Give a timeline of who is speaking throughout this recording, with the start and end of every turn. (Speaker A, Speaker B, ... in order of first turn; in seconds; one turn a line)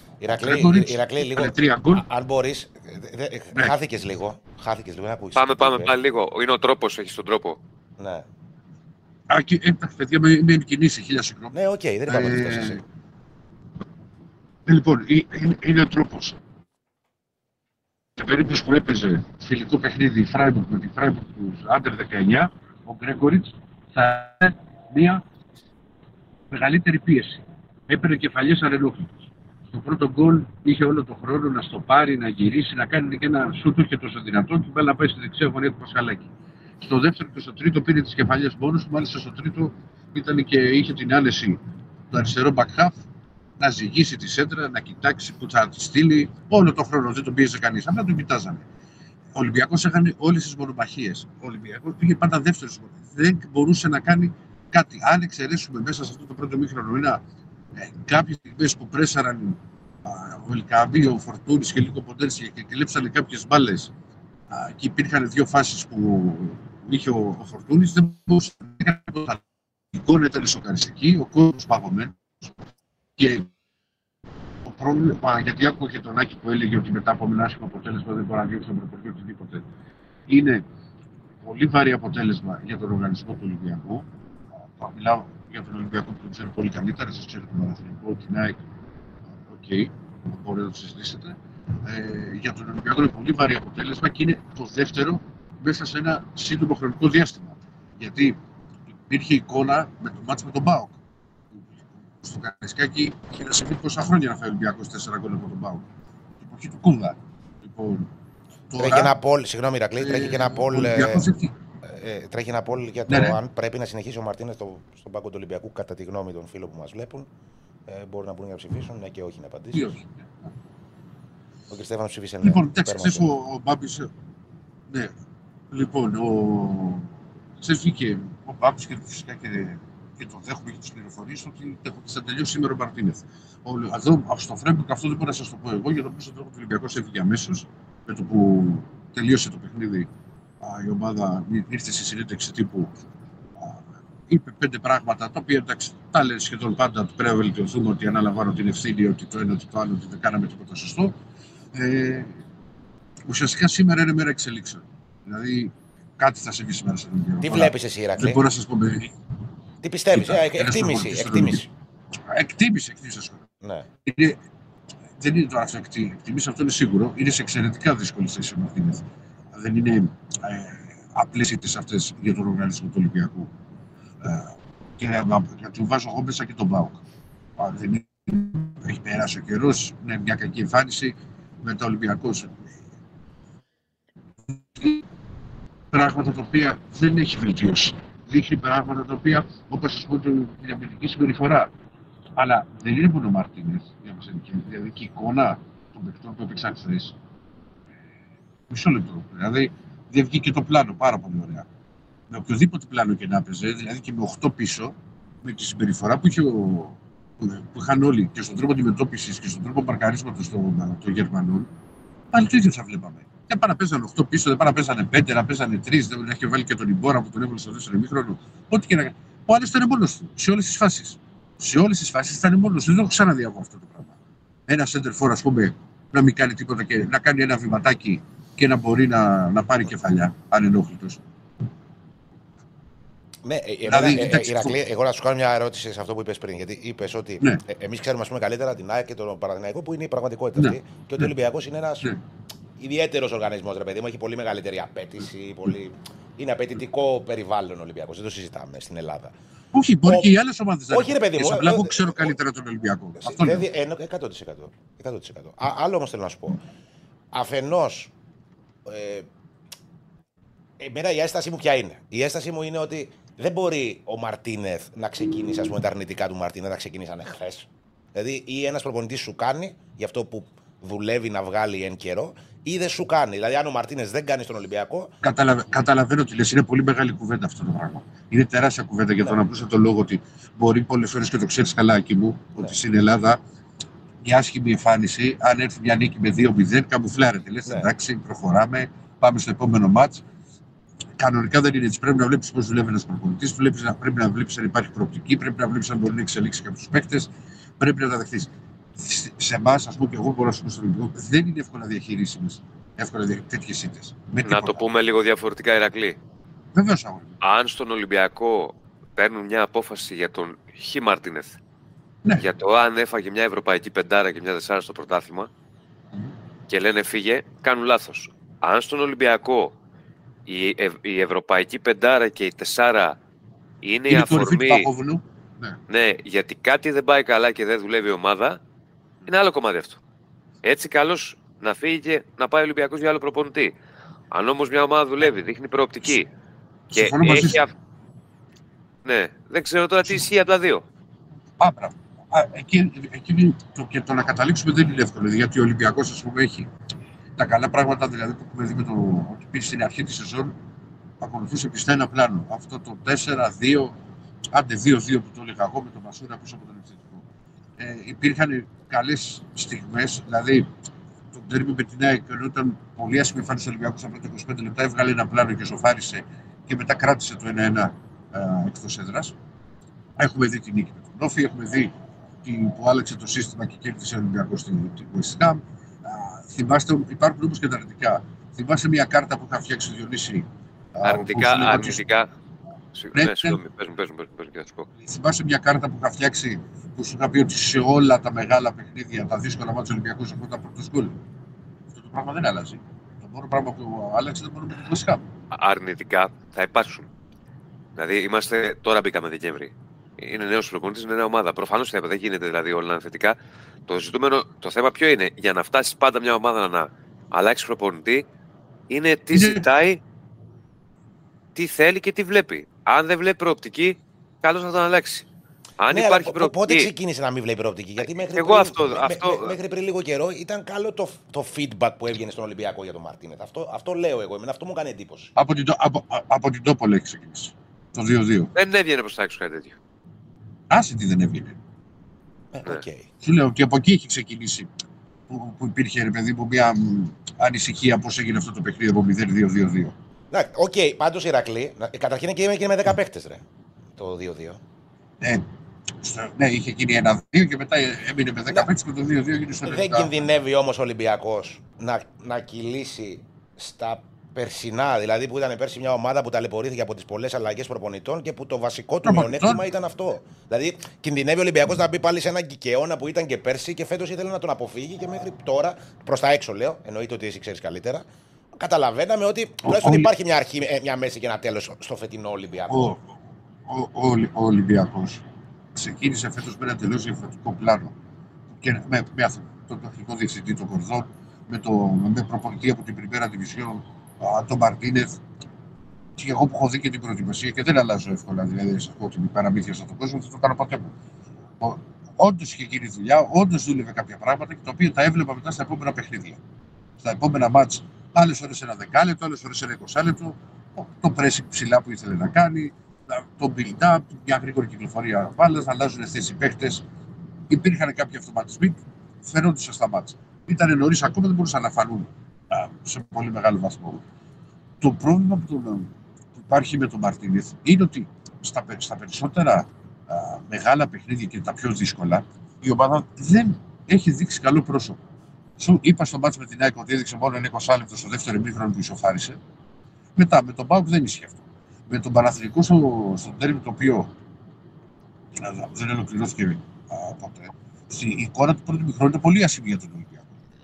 Speaker A: 0.2-5.9
Speaker B: 0.4-2.0
Speaker C: 5.4-7.6
Speaker A: 8.0-8.3
Speaker B: 9.3-11.6
Speaker A: 11.5-12.8
Speaker B: 12.1-12.8
Speaker B: 14.7-16.4
Speaker B: 18.2-25.2
Speaker B: 26.5-29.1
Speaker B: 29.7-36.3
Speaker B: 36.8-41.6
Speaker B: 42.1-43.0
Speaker B: 43.6-48.6
Speaker B: 49.4-57.2
Speaker B: 57.8-63.9
Speaker B: 64.5-69.4
Speaker B: 69.9-72.5
Speaker B: 73.2-73.5
Speaker B: 74.6-79.7
Speaker B: 80.3-80.6
Speaker B: 81.4-84.1
Speaker B: 84.8-88.6
Speaker B: 89.5-98.4
Speaker B: 99.1-101.0
Speaker B: 101.5-105.8
Speaker B: 106.4-108.1
Speaker B: 108.7-109.1
Speaker A: 108.8-111.3
Speaker B: 110.0-111.5
Speaker A: 111.8-117.3
Speaker B: 113.1-113.4
Speaker A: 117.9-120.0
Speaker B: 119.7-120.5
Speaker A: 121.7-123.3
Speaker B: 122.4-124.1
Speaker B: 125.7-140.1
Speaker B: 140.6-142.9
Speaker B: 143.6-151.2
Speaker B: 151.7-152.4
Speaker B: 153.3-159.1
Speaker A: 157.4-158.4
Speaker A: 159.8-161.7
Speaker B: 160.1-161.7
Speaker B: 162.3-163.5
Speaker A: 163.6-163.9
Speaker B: 164.1-164.4
Speaker B: 165.2-173.5
Speaker B: 174.2-177.0
Speaker B: 177.6-182.7
Speaker B: 184.6-185.0
Speaker B: 185.9-191.7
Speaker B: 192.4-197.1
Speaker B: 198.7-201.7
Speaker B: 202.3-211.7
Speaker B: 212.3-224.1
Speaker B: 224.7-231.2
Speaker A: 233.4-242.1
Speaker B: 233.8-234.8
Speaker B: 240.6-241.3
Speaker A: 242.8-249.4
Speaker B: 249.7-253.6
Speaker A: 250.1-250.3
Speaker A: 250.9-252.4
Speaker A: 253.2-256.6
Speaker A: 257.3-258.1
Speaker A: 258.9-259.3
Speaker A: 260.8-275.1
Speaker B: 275.2-283.4
Speaker B: 284.2-290.2
Speaker B: 291.2-304.9
Speaker C: 304.4-306.2
Speaker B: 306.7-307.4
Speaker C: 307.4-311.6
Speaker C: 312.4-315.5
Speaker C: 316.7-319.8
Speaker C: 320.5-323.2
Speaker C: 323.8-324.9
Speaker B: 324.1-325.8
Speaker C: 325.9-328.6
Speaker C: 329.2-330.0
Speaker C: 330.6-333.7
Speaker C: 334.3-336.3
Speaker B: 336.9-337.6
Speaker C: 336.9-337.7
Speaker C: 339.1-340.8
Speaker B: 341.6-346.7
Speaker B: 347.4-350.5
Speaker B: 351.2-353.9
Speaker B: 354.5-357.2
Speaker B: 357.8-360.7
Speaker B: 361.3-369.4
Speaker B: 370.2-371.9
Speaker B: 372.4-382.0
Speaker C: 381.0-382.3
Speaker C: 382.9-384.9
Speaker B: 383.1-383.6
Speaker B: 385.0-391.1
Speaker B: 391.9-395.2
Speaker C: 395.5-397.1
Speaker C: 398.0-403.4
Speaker C: 403.9-408.2
Speaker C: 408.9-410.0
Speaker B: 409.3-409.6
Speaker C: 411.6-415.3
Speaker C: 415.8-416.9
Speaker A: 415.9-425.3
Speaker C: 418.3-419.5
Speaker B: 425.4-428.5
Speaker C: 428.5-429.8
Speaker B: 430.7-431.6
Speaker A: 432.5-433.1
Speaker B: 433.2-434.7
Speaker B: 435.3-439.9
Speaker A: 440.3-443.4
Speaker A: 444.0-444.6
Speaker B: 446.0-450.1
Speaker A: 449.6-472.9
Speaker B: 459.0-459.6
Speaker B: 469.7-470.1
Speaker B: 472.7-473.0
Speaker B: 473.7-475.2
Speaker B: 475.8-477.9
Speaker B: 478.5-485.2
Speaker B: 486.2-490.9
Speaker B: 491.6-496.4
Speaker B: 497.0-506.8
Speaker B: 507.5-514.0
Speaker B: 514.8-525.0
Speaker B: 525.6-529.4
Speaker B: 530.2-534.1
Speaker B: 535.4-540.3